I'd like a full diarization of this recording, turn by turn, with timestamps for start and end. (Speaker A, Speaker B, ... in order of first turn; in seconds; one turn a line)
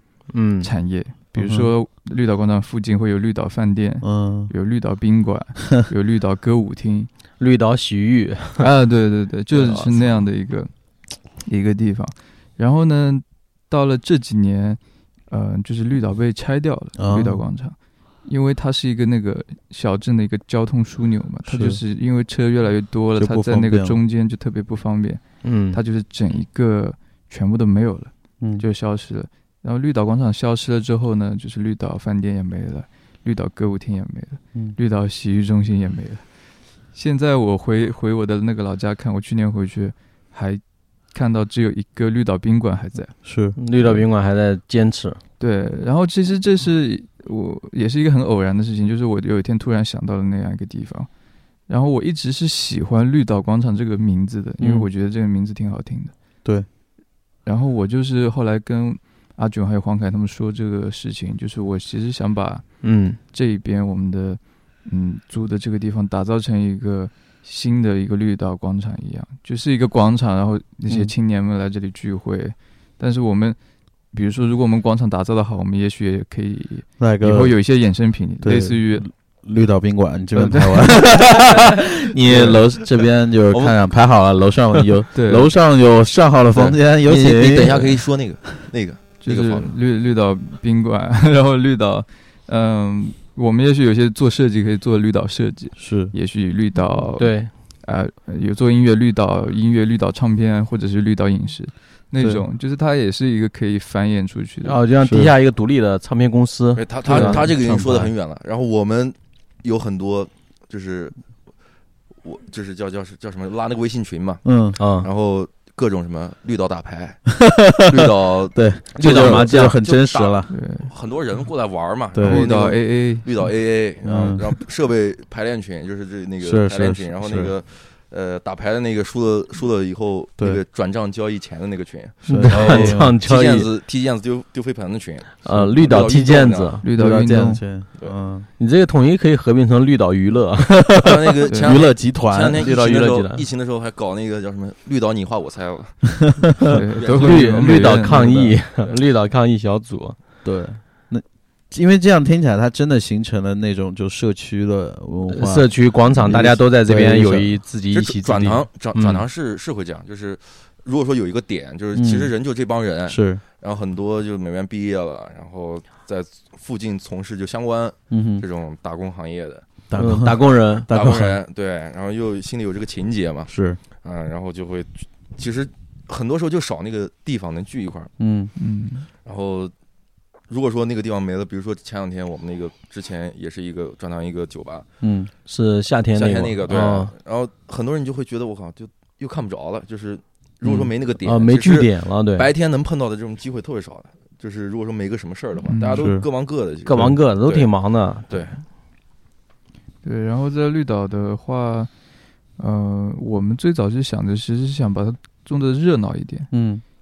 Speaker A: 0.3-0.7
Speaker B: 0.6-7.1
Speaker C: 1.4-1.7
Speaker C: 4.0-4.5
Speaker A: 7.4-8.7
Speaker B: 8.6-36.3
Speaker A: 9.5-10.2
Speaker C: 17.0-17.4
Speaker C: 21.4-21.8
Speaker C: 23.1-24.0
Speaker A: 25.4-25.8
Speaker C: 28.4-28.6
Speaker B: 36.9-43.2
Speaker C: 43.2-43.6
Speaker A: 43.5-45.2
Speaker B: 45.4-51.1
Speaker B: 51.7-56.1
Speaker A: 54.6-54.9
Speaker B: 57.4-79.1
Speaker A: 62.8-63.2
Speaker C: 70.9-71.1
Speaker C: 77.0-88.4
Speaker B: 80.3-80.9
Speaker B: 82.3-82.6
Speaker B: 85.1-85.5
Speaker D: 86.5-89.7
Speaker B: 89.2-104.8
Speaker C: 95.8-96.1
Speaker A: 97.2-97.5
Speaker A: 104.6-107.5
Speaker C: 105.0-105.3
Speaker D: 106.7-111.2
Speaker B: 107.0-107.9
Speaker C: 107.5-108.1
Speaker D: 112.2-117.2
Speaker C: 114.4-114.8
Speaker A: 114.8-115.1
Speaker C: 117.3-120.5
Speaker D: 117.8-136.8
Speaker A: 118.9-119.8
Speaker B: 120.5-120.9
Speaker C: 122.1-122.5
Speaker B: 122.2-123.3
Speaker C: 124.0-124.6
Speaker C: 126.4-127.5
Speaker C: 132.2-133.2
Speaker A: 132.3-133.7
Speaker A: 135.4-136.8
Speaker B: 136.8-137.6
Speaker C: 136.9-138.5
Speaker A: 138.6-141.2
Speaker C: 140.9-142.6
Speaker D: 141.0-146.3
Speaker B: 141.5-141.8
Speaker A: 142.5-143.5
Speaker B: 146.7-148.6
Speaker D: 147.0-148.1
Speaker A: 147.1-150.2
Speaker C: 150.4-157.6
Speaker A: 155.3-159.2
Speaker D: 157.9-169.7
Speaker C: 161.9-162.3
Speaker C: 163.1-163.4
Speaker C: 168.1-168.4
Speaker C: 169.9-171.4
Speaker A: 169.9-170.9
Speaker D: 170.9-178.1
Speaker C: 173.5-173.8
Speaker C: 178.2-178.5
Speaker B: 178.6-179.1
Speaker D: 179.2-179.7
Speaker D: 180.5-184.9
Speaker C: 185.0-185.3
Speaker A: 185.4-187.1
Speaker D: 186.1-197.7
Speaker A: 190.6-192.5
Speaker B: 195.6-196.0
Speaker C: 195.9-196.3
Speaker A: 196.8-198.5
Speaker C: 196.9-197.2
Speaker D: 198.3-198.6
Speaker B: 200.0-201.9
Speaker B: 202.6-206.5
Speaker C: 206.5-206.8